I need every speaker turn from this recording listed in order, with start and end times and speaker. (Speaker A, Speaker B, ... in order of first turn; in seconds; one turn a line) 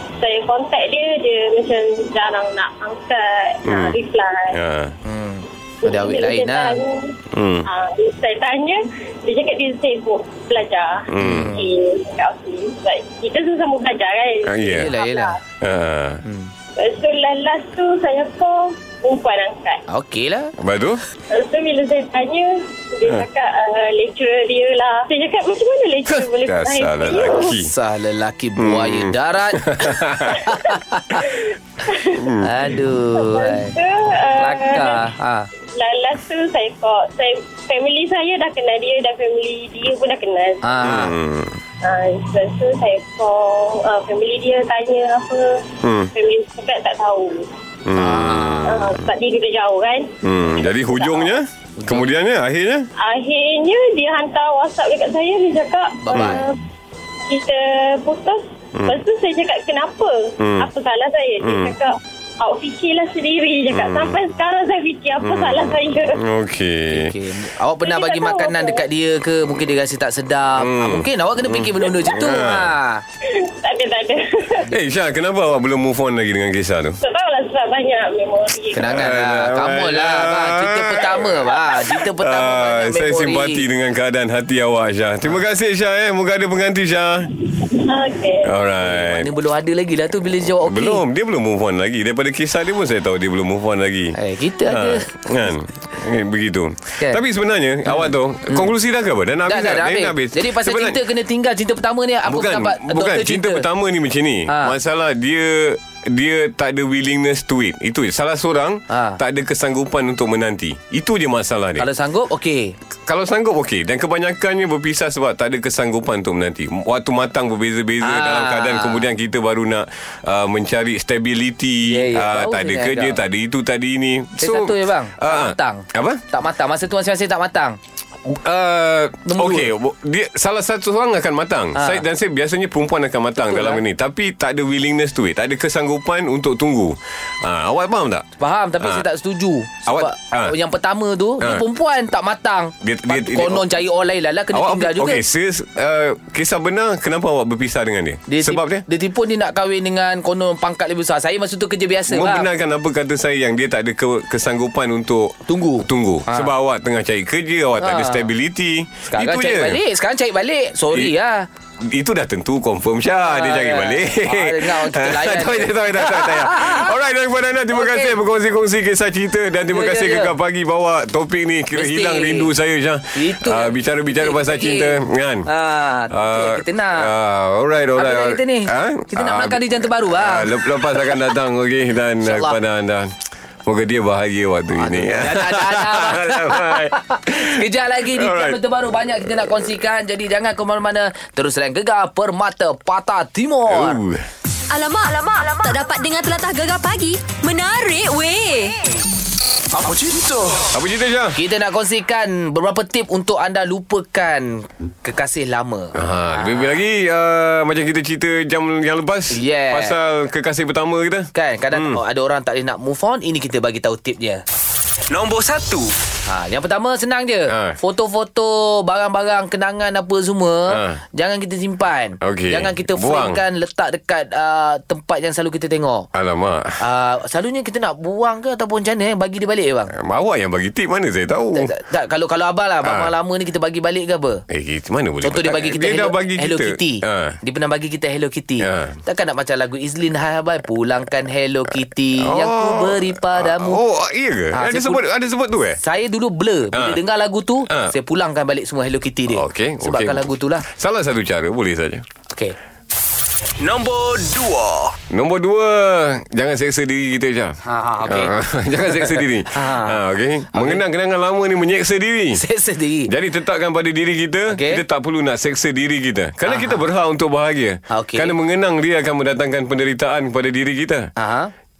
Speaker A: 0.2-4.6
Speaker B: 3.6-4.0
Speaker B: 4.5-4.9
Speaker C: 5.0-6.8
Speaker A: 5.8-15.4
Speaker B: 7.3-7.7
Speaker B: 11.1-11.6
Speaker C: 11.2-11.6
Speaker B: 14.4-14.9
Speaker C: 14.7-15.3
Speaker B: 15.6-16.2
Speaker C: 16.2-16.5
Speaker A: 16.8-19.8
Speaker C: 19.9-20.5
Speaker B: 20.6-21.0
Speaker A: 21.3-27.6
Speaker B: 26.3-27.7
Speaker C: 27.5-31.3
Speaker B: 28.6-30.4
Speaker A: 31.3-32.4
Speaker B: 32.1-32.7
Speaker C: 32.4-33.8
Speaker A: 33.1-35.0
Speaker C: 34.4-35.5
Speaker A: 35.6-40.6
Speaker C: 40.6-41.1
Speaker B: 40.8-41.6
Speaker A: 41.8-47.5
Speaker B: 45.8-46.1
Speaker B: 47.9-49.0
Speaker C: 47.9-48.8
Speaker A: 48.6-50.1
Speaker B: 50.2-52.9
Speaker C: 51.8-52.1
Speaker A: 53.0-56.6
Speaker C: 56.0-56.5
Speaker B: 56.1-56.4
Speaker A: 57.3-66.2
Speaker B: 60.4-60.7
Speaker B: 61.4-61.7
Speaker B: 63.7-64.2
Speaker B: 65.2-67.1
Speaker C: 66.9-73.0
Speaker A: 67.8-68.8
Speaker B: 70.6-72.7
Speaker A: 73.2-74.6
Speaker B: 74.7-77.0
Speaker A: 77.0-79.0
Speaker C: 78.7-83.6
Speaker B: 78.8-87.3
Speaker A: 87.6-88.5
Speaker B: 88.4-89.3
Speaker C: 88.8-91.0
Speaker B: 90.6-101.0
Speaker C: 94.1-95.1
Speaker C: 97.9-98.7
Speaker C: 99.5-103.7
Speaker B: 102.2-111.8
Speaker C: 104.5-104.7
Speaker C: 108.9-109.2
Speaker C: 111.8-112.8
Speaker B: 113.0-126.2
Speaker C: 118.0-119.0
Speaker C: 121.8-123.2
Speaker C: 124.4-127.8
Speaker B: 128.3-138.2
Speaker C: 129.2-129.7
Speaker C: 131.8-132.0
Speaker C: 133.4-133.8
Speaker C: 138.4-145.2
Speaker B: 139.8-140.6
Speaker B: 141.4-141.6
Speaker B: 142.8-143.7
Speaker B: 144.5-148.8
Speaker C: 148.3-152.5
Speaker B: 152.1-159.8
Speaker C: 155.5-156.5
Speaker C: 157.8-158.3
Speaker C: 159.1-161.5
Speaker B: 161.8-175.5
Speaker C: 163.2-166.9
Speaker C: 167.7-168.2
Speaker C: 169.7-170.3
Speaker C: 171.7-172.5
Speaker C: 173.1-177.1
Speaker B: 176.1-188.6
Speaker C: 177.9-181.2
Speaker C: 182.2-182.6
Speaker C: 184.7-194.0
Speaker B: 193.7-194.2
Speaker D: 194.7-198.8
Speaker C: 199.7-200.0
Speaker E: 199.8-200.7
Speaker B: 200.7-201.4
Speaker C: 201.3-206.7
Speaker B: 205.9-212.0
Speaker C: 209.3-209.9
Speaker C: 211.3-214.4
Speaker E: 215.1-215.9
Speaker C: 216.3-226.1
Speaker B: 217.5-217.8
Speaker B: 220.7-221.0
Speaker B: 222.2-223.4
Speaker B: 226.1-226.8
Speaker C: 226.8-229.9
Speaker B: 229.9-231.7
Speaker C: 231.5-234.4
Speaker B: 232.8-233.1
Speaker B: 234.5-237.4
Speaker C: 235.2-243.8
Speaker B: 238.6-239.0
Speaker B: 242.2-245.8
Speaker C: 244.5-245.0
Speaker C: 245.8-250.7
Speaker B: 246.7-247.0
Speaker B: 247.7-247.9
Speaker B: 249.3-252.0
Speaker E: 253.6-254.9
Speaker B: 255.1-262.4
Speaker C: 257.6-260.0
Speaker C: 260.5-260.8
Speaker C: 262.3-263.1
Speaker B: 263.1-271.1
Speaker C: 264.5-264.8
Speaker C: 266.4-266.8
Speaker C: 267.9-268.3
Speaker C: 271.2-271.5